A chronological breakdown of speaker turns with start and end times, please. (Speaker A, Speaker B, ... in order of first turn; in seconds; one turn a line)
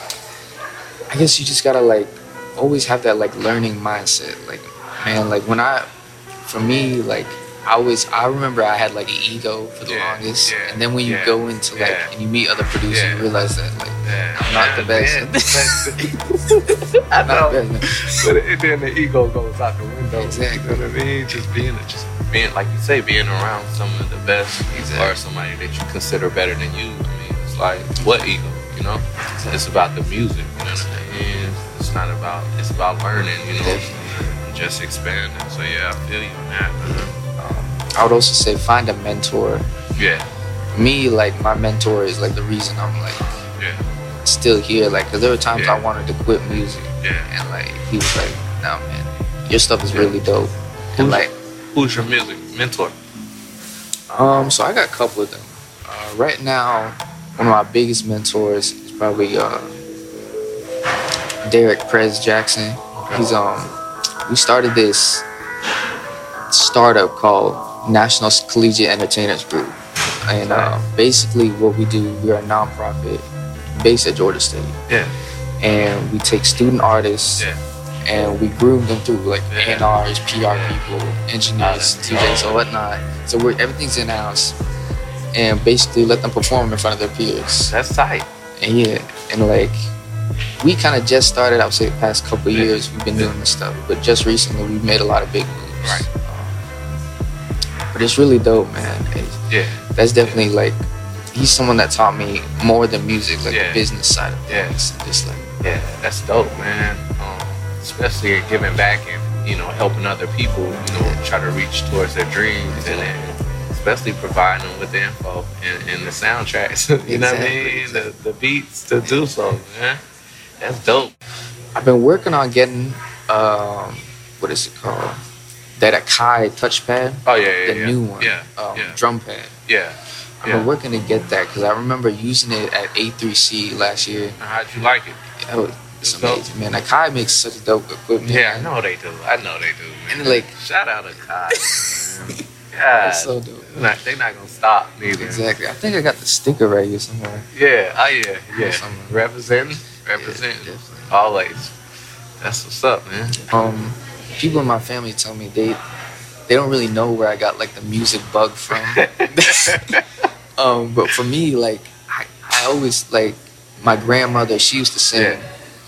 Speaker A: 1.1-5.9
Speaker A: 6.4-16.1
Speaker B: 9.8-12.1
Speaker B: 12.9-13.3
Speaker B: 14.0-37.1
Speaker A: 17.2-18.0
Speaker A: 20.1-20.8
Speaker A: 24.7-25.2
Speaker A: 30.7-31.1
Speaker A: 33.6-34.3
Speaker A: 36.8-39.7
Speaker B: 40.0-40.3
Speaker A: 40.7-43.4
Speaker B: 43.6-43.8
Speaker A: 44.2-51.3
Speaker B: 45.5-45.8
Speaker B: 47.0-47.3
Speaker B: 51.0-52.9
Speaker A: 54.1-59.8
Speaker A: 61.4-63.7
Speaker B: 63.0-63.2
Speaker A: 64.2-65.2
Speaker A: 66.5-74.8
Speaker B: 70.4-70.8
Speaker B: 74.9-75.1
Speaker A: 75.6-77.5
Speaker A: 78.0-84.5
Speaker B: 79.5-79.9
Speaker B: 80.5-80.8
Speaker B: 81.6-82.7
Speaker A: 85.3-87.7
Speaker B: 87.7-88.3
Speaker A: 88.6-89.8
Speaker A: 90.6-96.7
Speaker B: 92.5-93.3
Speaker B: 95.8-96.1
Speaker A: 97.9-99.4
Speaker B: 99.5-100.5
Speaker A: 99.9-105.5
Speaker B: 103.5-103.8
Speaker B: 104.5-104.8
Speaker B: 105.6-120.0
Speaker A: 110.9-111.2
Speaker A: 112.7-113.1
Speaker A: 117.0-118.1
Speaker A: 119.0-119.3
Speaker B: 120.6-121.1
Speaker A: 121.7-125.2
Speaker A: 125.8-129.5
Speaker B: 127.2-129.0
Speaker B: 129.7-130.7
Speaker A: 130.4-134.3
Speaker B: 134.4-135.2
Speaker A: 135.4-138.7
Speaker B: 136.0-136.5
Speaker B: 138.2-145.4
Speaker A: 140.1-140.5
Speaker A: 143.0-143.7
Speaker A: 145.1-147.5
Speaker B: 147.5-151.7
Speaker A: 148.5-149.2
Speaker A: 150.1-151.1
Speaker B: 152.4-153.5
Speaker A: 153.3-155.8
Speaker A: 156.5-159.9
Speaker B: 158.7-160.0
Speaker A: 160.6-165.5
Speaker B: 165.1-165.4